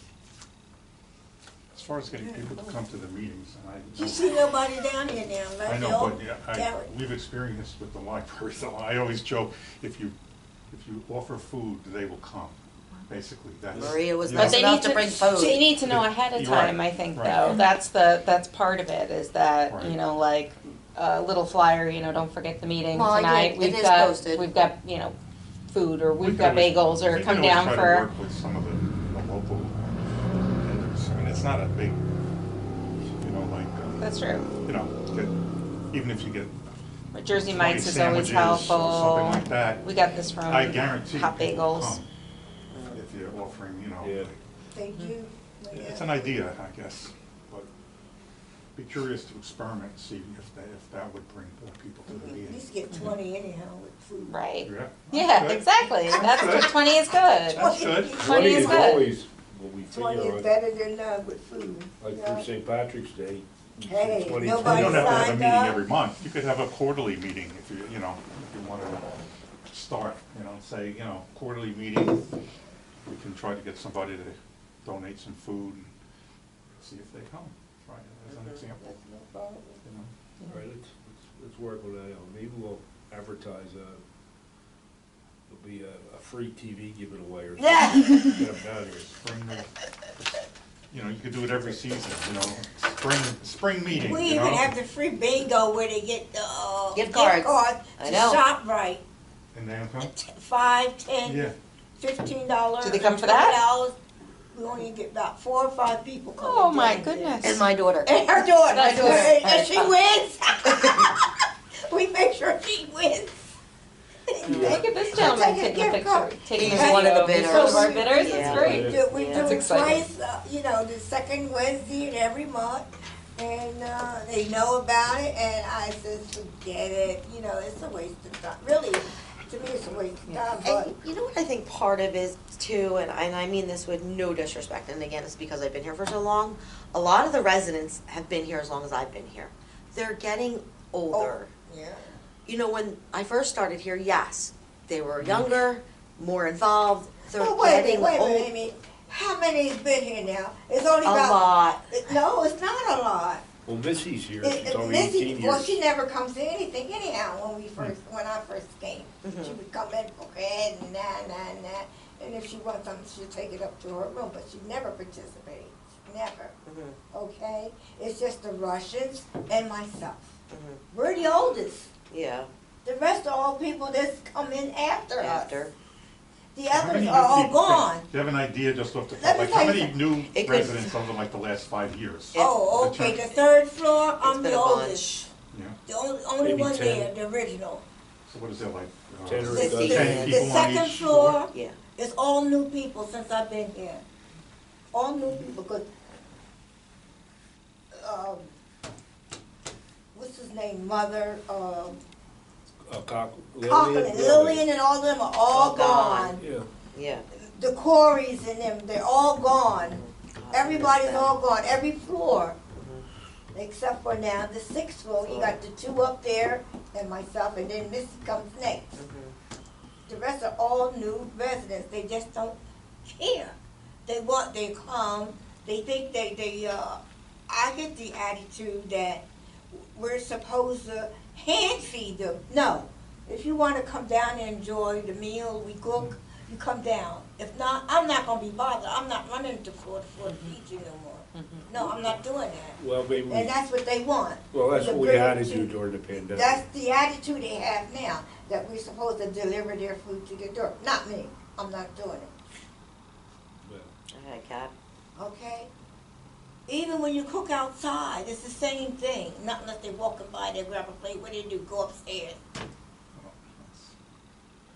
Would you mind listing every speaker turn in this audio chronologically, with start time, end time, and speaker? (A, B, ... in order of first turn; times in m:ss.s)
0:01.7-0:04.3 A
0:02.2-0:02.6 B
0:03.9-0:06.9 B
0:05.6-0:10.1 A
0:10.7-0:12.6 A
0:13.1-0:14.6 A
0:13.7-0:15.8 C
0:14.3-0:25.2 D
0:15.8-0:17.6 A
0:19.7-0:20.0 A
0:22.9-0:24.5 C
0:25.7-0:28.1 D
0:26.2-0:32.0 A
0:33.2-0:34.1 A
0:34.0-0:34.5 D
0:34.6-0:35.3 A
0:35.9-0:36.5 A
0:37.1-0:42.0 D
0:37.3-0:39.8 A
0:40.5-0:42.1 A
0:42.7-0:43.0 C
0:42.9-0:44.4 A
0:44.0-0:44.3 E
0:44.7-0:46.5 B
0:45.7-0:47.7 A
0:48.8-0:52.6 A
0:52.1-0:54.4 B
0:54.3-0:59.1 D
0:54.6-0:55.6 A
0:56.1-0:56.7 B
0:56.2-0:56.7 A
0:57.5-0:58.2 A
0:57.5-0:59.0 B
0:58.2-1:00.5 E
0:59.9-1:02.5 B
1:02.0-1:05.4 E
1:03.8-1:05.8 B
1:04.6-1:09.0 A
1:09.7-1:12.2 A
1:13.0-1:15.9 A
1:16.8-1:18.8 A
1:18.8-1:19.8 B
1:19.8-1:20.1 A
1:20.5-1:24.0 E
1:25.5-1:29.2 E
1:27.6-1:28.4 B
1:29.1-1:29.7 A
1:30.9-1:34.7 A
1:33.9-1:39.0 B
1:36.9-1:38.4 C
1:39.5-1:40.1 A
1:40.0-1:44.0 B
1:41.2-1:41.5 A
1:42.8-1:43.6 D
1:44.5-1:47.4 B
1:46.4-1:47.6 D
1:47.4-1:48.4 C
1:48.0-1:51.1 B
1:48.7-1:49.9 D
1:48.9-1:49.4 C
1:51.9-1:53.5 B
1:54.3-2:10.9 B
1:54.4-1:54.8 E
1:54.5-1:54.8 C
1:54.5-2:00.0 D
1:56.5-1:59.6 C
1:58.4-1:59.1 E
2:10.2-2:10.5 D
2:10.6-2:21.5 C
2:21.1-2:22.2 B
2:22.4-2:28.5 C
2:25.2-2:25.4 A
2:27.3-2:33.4 B
2:31.0-2:31.8 C
2:33.6-2:35.8 E
2:34.4-2:46.6 B
2:39.2-2:39.6 C
2:46.6-2:47.0 C
2:47.1-2:50.4 B
2:50.5-2:50.8 C
2:50.9-2:51.9 B
2:52.1-2:52.5 C
2:52.8-2:55.6 B
2:55.2-2:55.7 C
2:56.5-2:58.1 B
2:56.7-3:03.3 A
2:59.1-3:00.1 B
3:00.2-3:01.0 C
3:02.3-3:02.7 C
3:02.4-3:05.2 B
3:04.2-3:05.3 C
3:05.5-3:05.8 A
3:05.9-3:07.8 B
3:06.4-3:07.1 E
3:08.2-3:11.4 A
3:09.2-3:10.4 E
3:09.4-3:14.0 B
3:09.7-3:10.5 C
3:11.5-3:11.8 C
3:14.9-3:15.9 B
3:17.9-3:18.5 B
3:20.1-3:22.0 B
3:22.8-3:24.6 E
3:23.6-3:26.4 B
3:25.5-3:26.4 C
3:26.3-3:26.7 E
3:26.9-3:27.2 C
3:27.3-3:32.6 B
3:29.9-3:31.4 C
3:32.8-3:33.0 C
3:33.5-3:39.0 B
3:35.2-3:35.6 C
3:38.9-3:39.3 C
3:40.1-3:43.5 B
3:44.0-4:12.3 B
4:00.3-4:00.5 D
4:01.3-4:01.6 D
4:02.8-4:03.5 E
4:04.5-4:06.6 E
4:13.6-4:13.9 E
4:14.1-4:14.7 C
4:15.2-4:15.7 B
4:16.7-4:22.4 B
4:23.1-4:23.9 A